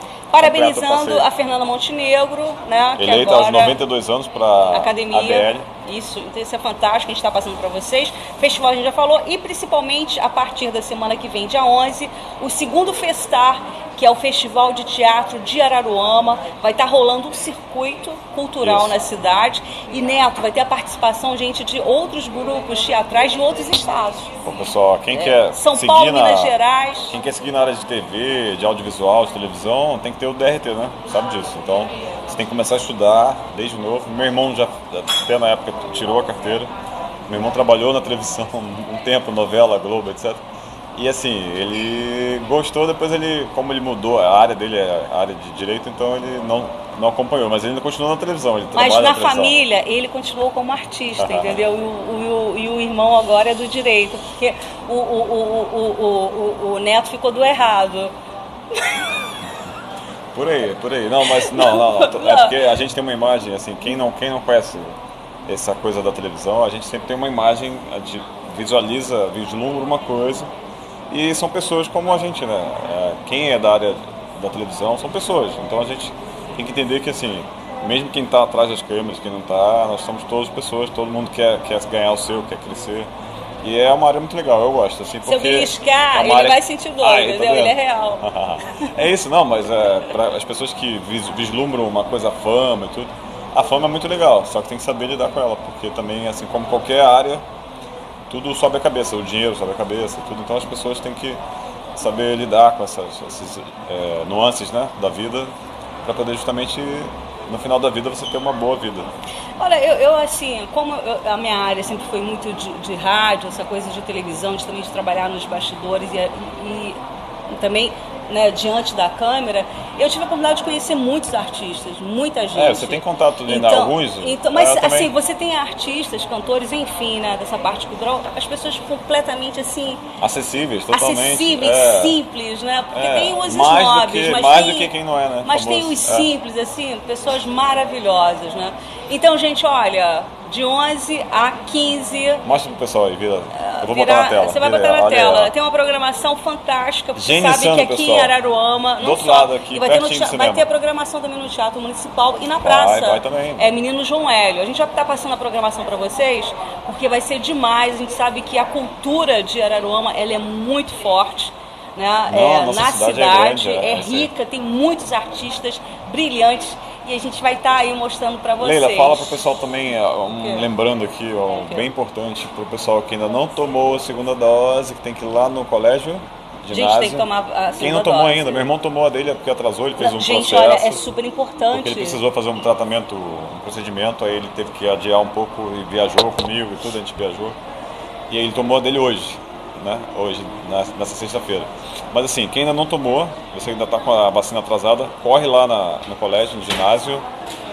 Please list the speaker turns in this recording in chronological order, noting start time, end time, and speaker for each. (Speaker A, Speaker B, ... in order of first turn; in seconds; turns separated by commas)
Speaker A: 0.3-3.8, Speaker B: 0.4-1.3, Speaker B: 3.0-5.7, Speaker A: 4.7-24.3, Speaker B: 18.6-19.0, Speaker B: 24.4-26.6, Speaker A: 25.1-27.1, Speaker B: 27.1-36.7, Speaker B: 37.3-40.4, Speaker B: 41.0-49.6, Speaker A: 48.8-58.1, Speaker B: 51.2-51.6, Speaker A: 58.7-59.0, Speaker B: 60.3-70.5, Speaker A: 61.2-62.7, Speaker B: 71.1-83.1, Speaker B: 83.6-97.5, Speaker A: 85.3-88.9, Speaker B: 98.3-101.4, Speaker B: 102.0-105.5, Speaker B: 106.0-109.1, Speaker A: 109.6-130.1, Speaker B: 122.5-125.1, Speaker B: 130.2-132.2, Speaker A: 130.9-142.4, Speaker B: 132.9-136.3, Speaker B: 142.4-145.5, Speaker A: 143.5-169.4, Speaker B: 147.2-148.3, Speaker B: 149.0-150.7, Speaker B: 152.6-153.8, Speaker B: 162.3-164.3, Speaker B: 168.6-177.3, Speaker A: 170.4-170.7, Speaker A: 171.5-171.9, Speaker A: 176.7-178.7, Speaker B: 177.8-181.0, Speaker A: 180.0-182.2, Speaker B: 181.7-187.6, Speaker B: 188.3-197.3